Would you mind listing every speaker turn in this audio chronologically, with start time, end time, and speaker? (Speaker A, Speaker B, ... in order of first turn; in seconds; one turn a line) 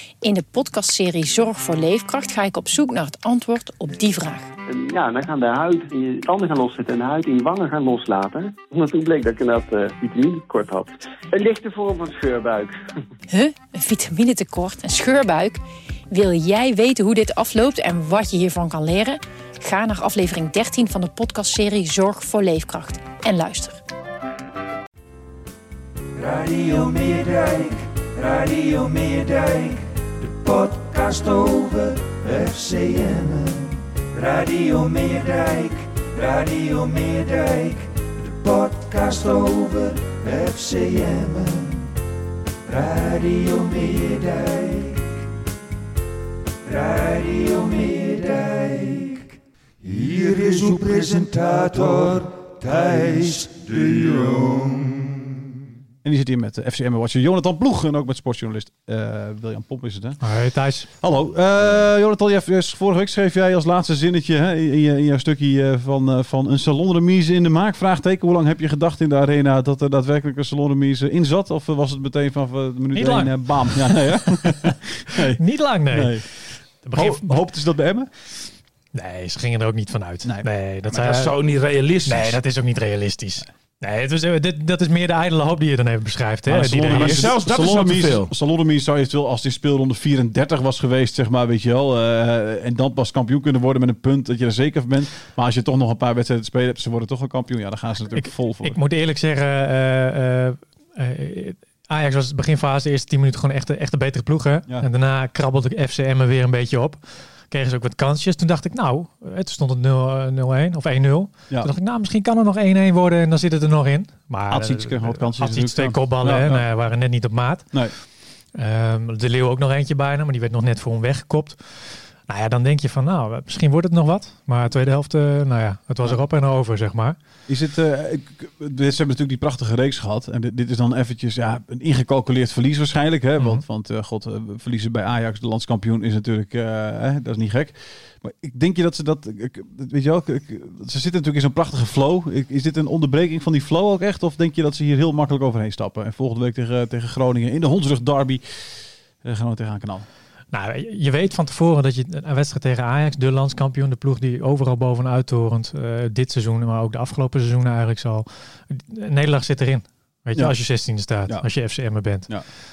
Speaker A: 0.2-4.5
Speaker B: 4.7-12.8
Speaker A: 13.3-23.8
Speaker C: 26.1-41.9
Speaker C: 42.7-45.0
Speaker C: 46.6-49.3
Speaker C: 49.8-55.2
Speaker D: 56.0-60.2
Speaker E: 60.2-60.9
Speaker D: 60.9-76.2
Speaker E: 72.9-74.6
Speaker E: 75.4-77.3
Speaker D: 76.9-78.1
Speaker E: 78.9-81.4
Speaker F: 80.9-82.4
Speaker E: 82.0-87.3
Speaker D: 86.5-98.8
Speaker F: 86.9-88.3
Speaker E: 98.1-117.9
Speaker D: 114.5-116.6
Speaker E: 118.5-127.2
Speaker D: 127.5-150.0
Speaker E: 150.5-162.3